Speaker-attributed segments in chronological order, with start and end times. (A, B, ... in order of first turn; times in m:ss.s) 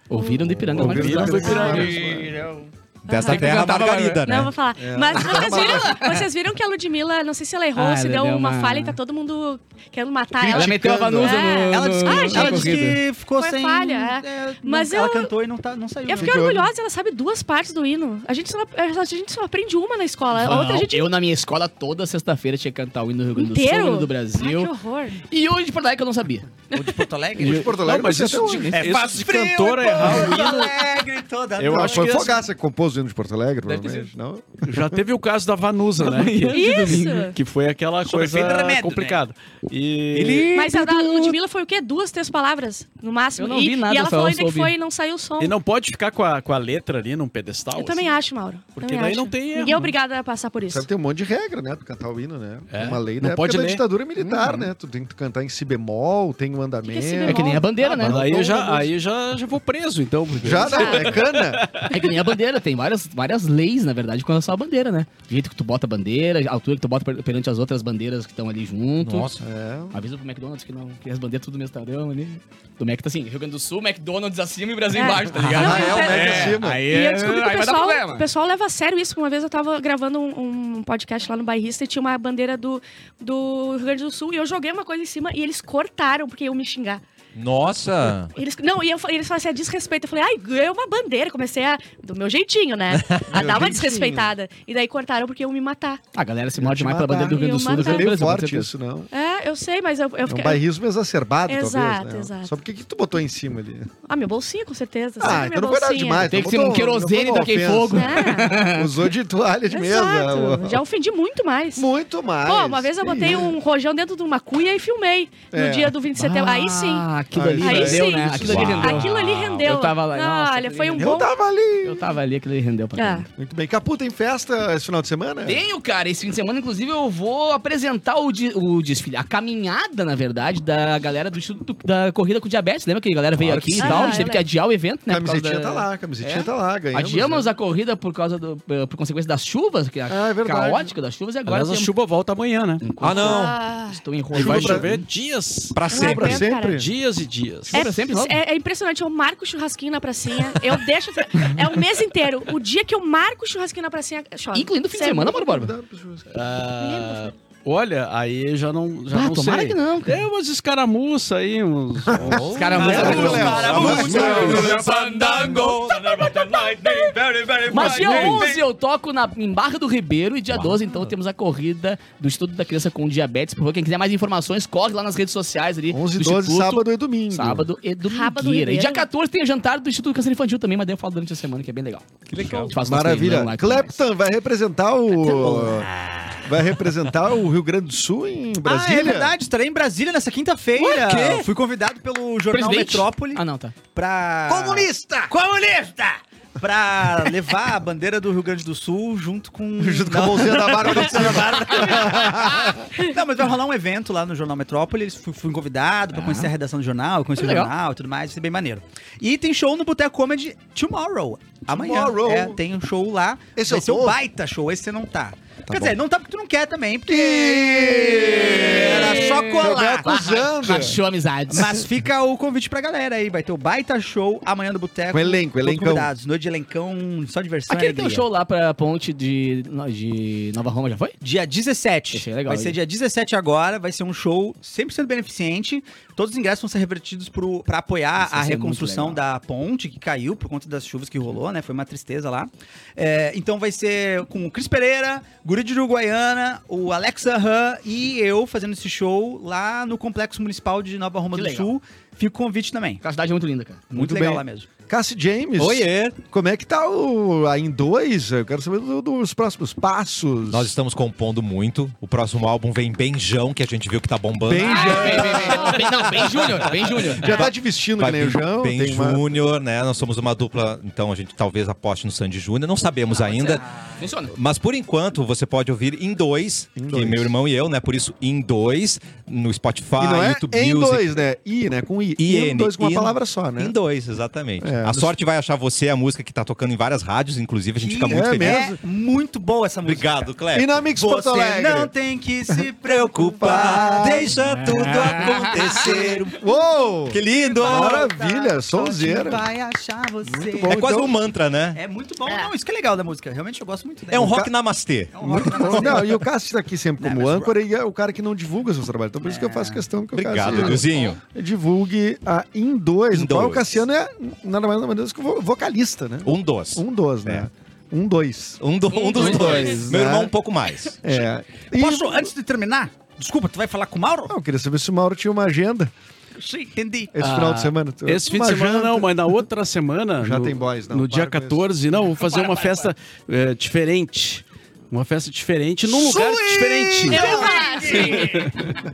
0:00.1-0:02.0 A
0:00.1-0:00.4 B
0:00.5-0:02.4 C
0:00.7-0:02.3 D
0:01.4-0:01.8 B
0:01.7-0:02.7 E
0:03.1-0:04.5 F
0:03.1-0:15.3 B
0:03.2-0:04.3 A
0:04.8-0:06.0 C
0:05.2-0:06.2 A
0:07.7-0:09.0 A
0:10.4-0:11.4 C
0:10.5-0:13.0 A
0:11.7-0:16.4 E
0:16.0-0:21.1 B
0:16.1-0:16.7 C
0:20.3-0:24.7 A
0:23.4-0:25.2 B
0:25.2-0:26.4 A
0:26.7-0:27.7 E
0:26.7-0:27.0 B
0:27.4-0:28.7 C
0:27.4-0:30.7 D
0:28.4-0:28.8 A
0:28.7-0:32.4 E
0:31.6-0:32.4 D
0:31.6-0:35.0 C
0:33.7-0:34.1 A
0:34.6-0:40.5 D
0:36.0-0:37.3 A
0:36.5-0:37.4 B
0:38.0-0:39.2 E
0:40.1-0:41.2 F
0:40.5-0:45.6 B
0:40.7-0:41.3 A
0:43.4-0:44.7 A
0:45.4-0:48.1 D
0:47.7-0:50.8 B
0:48.8-0:49.9 D
0:50.7-0:58.3 C
0:52.7-0:53.8 D
0:54.2-0:54.7 A
0:56.8-0:57.7 B
0:57.2-0:58.9 A
0:57.8-1:01.9 D
1:00.4-1:01.7 C
1:00.6-1:01.2 B
1:01.9-1:09.4 A
1:09.0-1:09.4 F
1:09.4-1:10.0 C
1:09.9-1:18.2 A
1:14.9-1:27.0 B
1:15.5-1:16.8 C
1:15.9-1:17.1 D
1:27.3-1:28.3 F
1:28.3-1:36.0 B
1:33.0-1:33.4 F
1:33.3-1:34.3 C
1:36.1-1:38.7 A
1:36.6-1:39.1 C
1:37.3-1:38.2 B
1:39.1-1:40.6 B
1:40.2-1:43.9 C
1:41.5-1:42.5 B
1:44.1-1:46.4 B
1:45.2-1:50.8 C
1:46.2-1:48.9 A
1:47.9-1:48.7 B
1:49.7-1:51.8 B
1:51.8-1:53.5 C
1:52.4-1:57.1 B
1:55.5-1:55.9 C
1:56.1-2:01.2 A
1:57.3-1:58.7 C
1:57.6-2:01.3 B
1:58.5-1:59.6 F
2:01.0-2:02.1 C
2:01.8-2:03.2 A
2:03.0-2:03.3 B
2:03.4-2:05.6 C
2:05.4-2:21.9 A
2:13.5-2:13.8 C
2:13.7-2:14.4 B
2:15.1-2:17.5 C
2:20.1-2:20.9 C
2:21.5-2:22.8 D
2:22.8-2:25.1 A
2:23.0-2:23.6 F
2:23.2-2:24.0 B
2:24.3-2:24.9 C
2:24.3-2:25.8 D
2:25.7-2:26.5 F
2:25.9-2:26.8 B
2:25.9-2:26.9 C
2:26.7-2:27.9 D
2:27.7-2:28.4 A
2:27.7-2:35.4 B
2:34.5-2:35.7 A
2:35.0-2:36.3 C
2:36.3-2:48.6 D
2:36.9-2:37.3 B
2:39.1-2:40.2 A
2:42.1-2:44.8 C
2:42.2-2:48.3 F
2:42.5-2:45.5 A
2:42.8-2:44.6 E
2:47.6-2:48.5 E
2:47.7-3:04.0 A
2:50.5-2:50.9 F
2:55.9-2:57.6 C
2:58.0-2:59.1 B
3:02.3-3:02.7 F
3:02.8-3:05.9 C
3:05.1-3:06.5 E
3:06.4-3:09.3 C
3:08.6-3:13.4 E
3:10.8-3:11.4 A
3:10.8-3:11.4 F
3:12.5-3:13.7 A
3:13.9-3:40.1 E
3:14.5-3:14.9 C
3:19.8-3:22.8 C
3:26.1-3:26.5 A
3:27.4-3:27.7 A
3:31.7-3:32.6 C
3:33.6-3:34.2 C
3:35.7-3:36.0 C
3:37.1-3:41.0 C
3:38.5-3:41.8 A
3:41.5-3:48.2 E
3:41.5-3:41.8 C
3:45.1-3:46.1 C
3:47.7-3:51.2 A
3:51.2-4:13.0 E
3:52.1-3:52.8 A
3:58.2-3:59.2 A
4:11.3-4:11.8 A
4:13.0-4:13.8 A
4:13.9-4:14.7 E
4:13.9-4:20.7 C
4:15.6-4:16.2 F
4:20.5-4:25.3 F
4:24.4-4:26.3 C
4:24.6-4:27.5 A
4:27.0-4:33.6 F
4:27.2-4:29.2 C
4:33.4-4:34.3 A
4:34.3-4:41.0 F
4:36.8-4:37.3 C
4:40.0-4:43.7 C
4:42.2-4:48.7 F
4:44.6-4:45.1 C
4:47.8-4:50.3 E
4:48.1-4:48.8 C
4:49.8-4:50.8 F
4:50.5-4:51.9 C
4:50.9-4:56.3 E
4:52.8-4:56.4 F
4:53.3-4:54.3 C
4:54.5-4:55.9 A
4:56.3-4:59.5 C
4:57.1-4:58.1 F
4:57.3-5:00.9 E
5:00.2-5:01.1 C
5:00.6-5:01.8 F
5:01.7-5:04.4 E
5:04.1-5:06.1 F
5:04.1-5:04.5 C
5:05.1-5:06.2 E
5:05.2-5:18.6 C
5:07.0-5:07.5 E
5:09.2-5:09.8 E
5:10.1-5:11.2 F
5:10.4-5:11.1 E
5:13.1-5:13.7 F
5:16.2-5:17.5 F
5:18.6-5:21.0 F
5:19.0-5:19.5 E
5:19.1-5:20.3 C
5:19.2-5:19.7 A
5:20.9-5:22.3 C
5:21.7-5:24.3 E
5:24.3-5:25.9 C
5:26.4-5:27.1 E
5:27.1-5:29.3 C
5:27.2-5:38.8 D
5:30.2-5:31.6 C
5:32.2-5:32.9 A
5:35.8-5:38.2 C
5:37.1-5:38.5 E
5:37.1-5:38.3 B